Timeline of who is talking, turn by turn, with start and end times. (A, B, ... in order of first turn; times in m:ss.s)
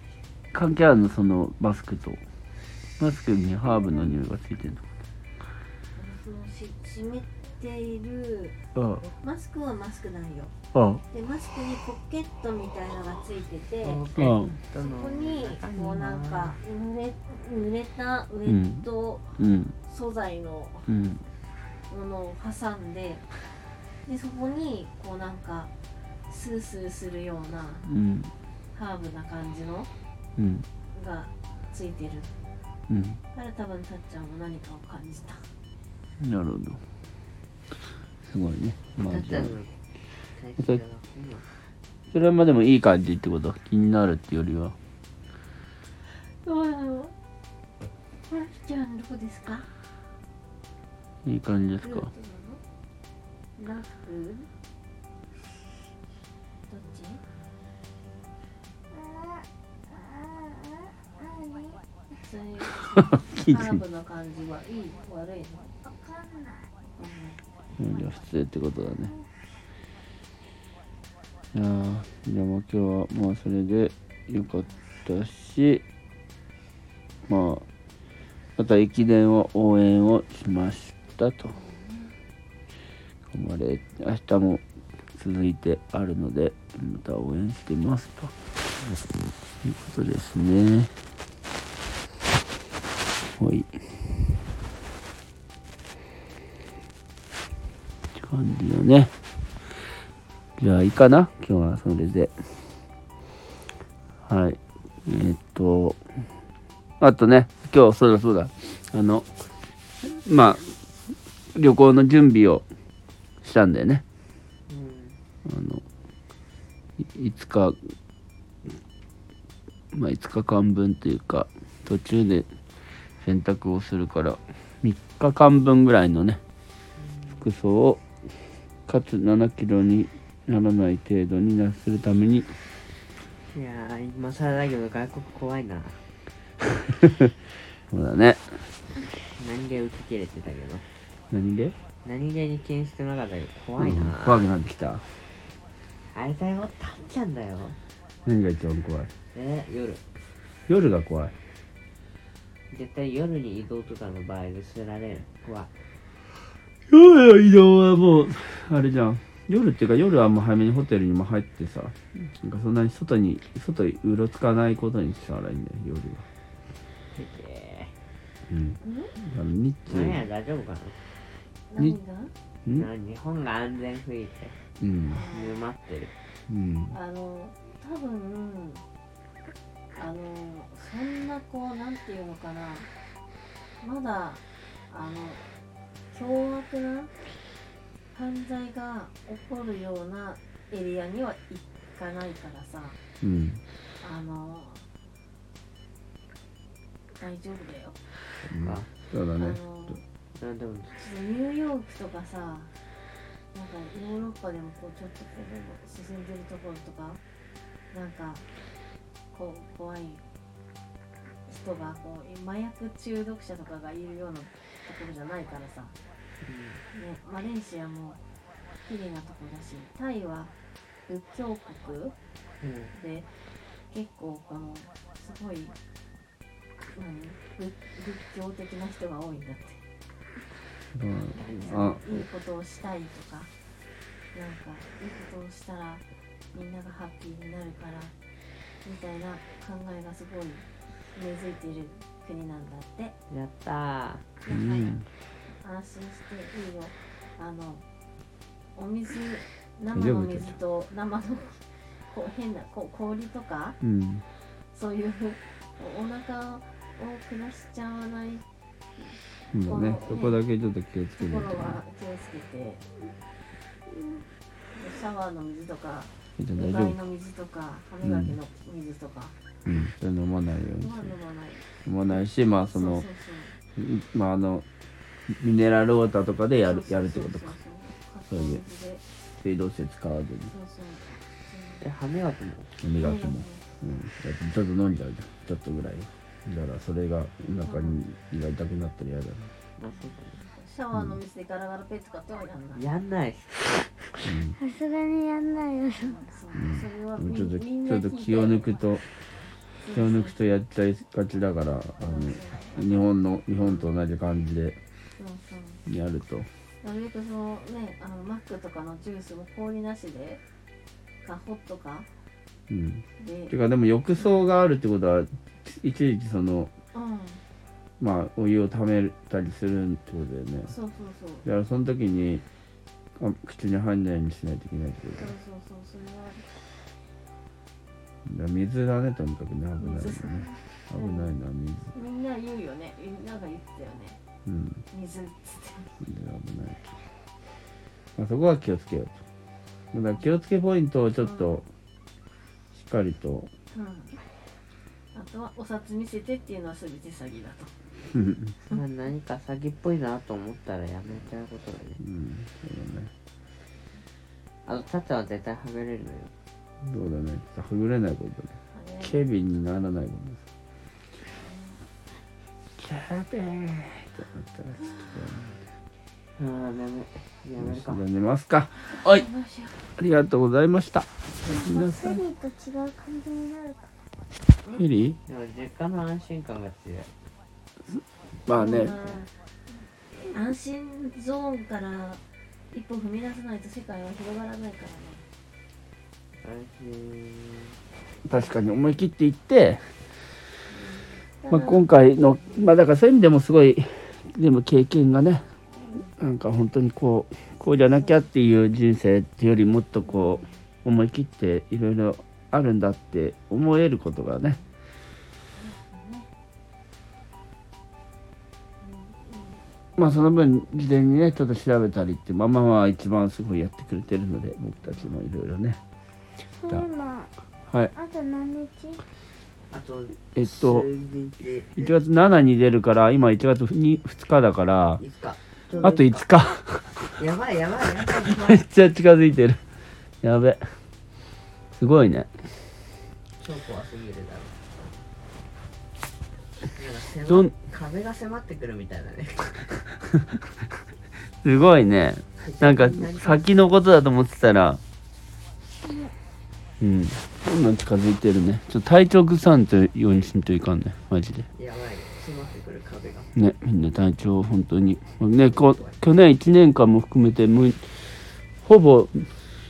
0:00.5-0:02.2 A
0:03.0-0:04.8 A
0:03.7-0:04.1 B
0:06.0-0:08.6 C
0:08.8-0:09.1 A
0:09.2-0:10.5 C
0:10.7-0:11.0 A
0:11.1-0:14.0 C
0:13.8-0:16.6 D
0:14.2-0:14.5 A
0:14.8-0:19.3 C
0:18.5-0:18.8 A
0:19.4-0:19.8 A
0:19.8-0:20.9 C
0:20.9-0:21.2 A
0:21.9-0:23.3 C
0:24.0-0:25.7 C
0:26.3-0:27.9 C
0:27.8-0:28.3 A
0:28.7-0:29.9 C
0:30.4-0:30.6 A
0:30.9-0:32.3 C
0:32.9-0:33.2 A
0:33.3-0:35.5 C
0:36.2-0:36.8 A
0:38.3-0:39.6 A
0:39.0-0:39.7 D
0:40.3-0:41.4 D
0:42.1-0:44.8 A
0:46.2-0:47.1 C
0:48.3-0:49.7 C
0:51.2-0:52.1 A
0:51.8-0:52.6 C
0:53.6-0:54.5 C
0:56.7-0:57.2 C
0:58.9-1:01.8 B
1:02.2-1:05.7 C
1:03.0-1:03.8 A
1:05.8-1:06.7 B
1:06.9-1:07.4 C
1:07.8-1:09.1 A
1:11.5-1:15.8 A
1:17.3-1:17.6 A
1:18.6-1:21.6 A
1:21.4-1:22.2 C
1:23.3-1:24.6 A
1:25.1-1:28.3 A
1:29.6-1:30.9 A
1:33.4-1:33.7 A
1:38.2-1:39.1 A
1:40.6-1:42.3 A
1:44.3-1:46.0 A
1:47.0-1:49.3 A
1:50.0-1:50.7 A
1:51.6-1:52.6 A
1:53.4-1:54.0 A
1:54.7-1:55.2 D
1:55.4-1:55.8 A
1:57.0-1:57.8 A
1:59.9-2:02.5 A
2:03.2-2:06.4 A
2:07.0-2:07.5 D
2:07.4-2:08.0 A
2:08.9-2:12.6 A
2:13.5-2:16.0 D
2:17.0-2:17.3 A
2:17.9-2:18.6 A
2:19.2-2:20.8 D
2:21.3-2:21.8 A
2:22.0-2:24.5 D
2:23.8-2:25.0 A
2:26.1-2:27.8 D
2:28.3-2:29.1 A
2:29.3-2:30.0 D
2:30.7-2:31.3 A
2:32.7-2:35.7 D
2:36.9-2:46.2 A
2:47.1-2:47.9 D
2:48.5-2:50.2 A
2:48.8-2:49.1 C
2:49.9-2:51.0 D
2:51.7-2:52.3 C
2:52.7-2:54.6 D
2:54.8-2:55.2 A
2:55.1-2:55.6 C
2:55.3-2:56.1 D
2:56.5-2:57.0 A
2:56.9-2:58.8 C
3:00.0-3:02.9 C
3:03.8-3:05.4 C
3:06.1-3:07.1 C
3:08.1-3:13.0 C
3:13.2-3:13.6 A
3:14.0-3:14.9 C
3:17.2-3:18.0 C
3:18.4-3:20.0 A
3:18.6-3:18.9 D
3:19.4-3:20.0 C
3:20.4-3:21.0 D
3:20.9-3:22.7 C
3:23.5-3:27.2 C
3:27.9-3:28.5 C
3:29.3-3:30.2 C
3:31.5-3:35.9 C
3:36.4-3:36.8 D
3:36.9-3:38.2 C
3:38.8-3:40.5 C
3:41.1-3:42.2 C
3:42.6-3:42.9 D
3:42.9-3:43.4 C
3:43.9-3:45.8 C
3:46.9-3:49.8 C
3:51.0-3:52.1 A
3:51.4-3:51.8 D
3:51.5-3:53.5 C
3:54.3-3:58.1 C
3:58.8-4:03.2 C
4:03.3-4:04.2 D
4:04.4-4:07.8 C
4:04.5-4:05.1 A
4:08.8-4:13.8 C
4:09.9-4:10.6 A
4:13.8-4:14.2 A
4:14.7-4:18.4 C
4:19.0-4:20.4 C
4:19.5-4:21.8 A
4:21.2-4:22.9 C
4:24.7-4:29.4 C
4:26.4-4:27.0 A
4:28.0-4:28.4 A
4:29.7-4:31.2 A
4:30.8-4:31.6 C
4:31.8-4:33.1 A
4:32.7-4:33.6 C
4:33.8-4:34.7 A
4:35.3-4:37.5 A
4:36.6-4:39.0 C
4:38.3-4:38.6 A
4:39.4-4:40.5 A
4:40.5-4:41.8 C
4:41.8-4:42.7 D
4:42.8-4:49.5 A
4:43.0-4:43.7 C
4:47.6-4:48.1 C
4:49.8-4:50.4 D
4:50.4-4:52.8 C
4:52.8-4:53.9 D
4:54.2-4:54.6 A
4:54.6-4:56.3 B
4:56.0-4:58.8 C
4:56.6-4:59.1 A
4:59.8-5:00.4 C
4:59.9-5:04.8 A
5:02.0-5:03.0 C
5:05.2-5:05.8 C
5:05.9-5:06.5 A
5:06.8-5:10.4 C
5:11.2-5:12.1 C
5:12.7-5:16.7 A
5:13.2-5:13.6 C
5:14.2-5:14.5 C
5:16.9-5:17.4 C
5:18.0-5:20.7 A
5:20.7-5:21.5 C
5:21.4-5:22.4 A
5:23.2-5:25.3 A
5:25.2-5:26.5 C
5:28.2-5:31.9 A
5:29.8-5:31.3 C
5:31.9-5:34.2 C
5:34.5-5:34.8 A
5:34.9-5:36.0 C
5:36.0-5:36.8 A
5:38.2-5:39.2 A
5:39.9-5:41.7 A
5:41.2-5:41.6 C
5:42.7-5:43.5 A
5:43.7-5:44.2 C
5:45.1-5:47.7 C
5:48.1-5:48.6 A
5:48.6-5:52.0 D
5:52.0-5:53.1 A
5:54.7-5:56.3 D
5:56.8-6:00.4 A
5:58.7-5:59.2 C
6:01.4-6:01.8 C
6:02.8-6:05.6 A
6:06.4-6:08.0 D
6:07.6-6:09.3 A
6:08.8-6:09.8 C
6:10.0-6:12.2 A
6:11.4-6:13.9 B
6:14.7-6:15.2 A
6:15.3-6:17.1 D
6:17.9-6:19.0 A
6:18.5-6:19.3 C
6:18.8-6:19.2 D
6:20.2-6:25.2 C
6:26.4-6:27.8 D
6:28.2-6:29.8 A
6:30.7-6:31.9 C
6:31.5-6:35.5 A
6:32.4-6:32.6 C
6:35.8-6:36.1 C
6:36.2-6:44.6 A
6:40.1-6:40.5 C
6:45.6-6:46.3 C
6:48.8-6:50.1 C
6:50.0-6:55.8 A
6:56.6-6:57.3 B
6:57.9-6:59.0 B
6:59.7-7:01.9 D
7:00.4-7:00.9 A
7:01.8-7:05.0 A
7:05.0-7:06.2 D
7:05.8-7:07.0 A
7:07.1-7:08.6 D
7:08.1-7:09.6 A
7:10.2-7:10.7 A
7:11.8-7:12.3 A
7:13.4-7:14.6 D
7:16.6-7:19.8 D
7:17.3-7:17.5 A
7:21.4-7:24.8 A
7:22.4-7:23.5 D
7:25.8-7:26.1 B
7:26.8-7:31.5 A
7:31.5-7:33.3 D
7:33.4-7:37.9 A
7:35.4-7:36.0 D
7:38.6-7:39.3 A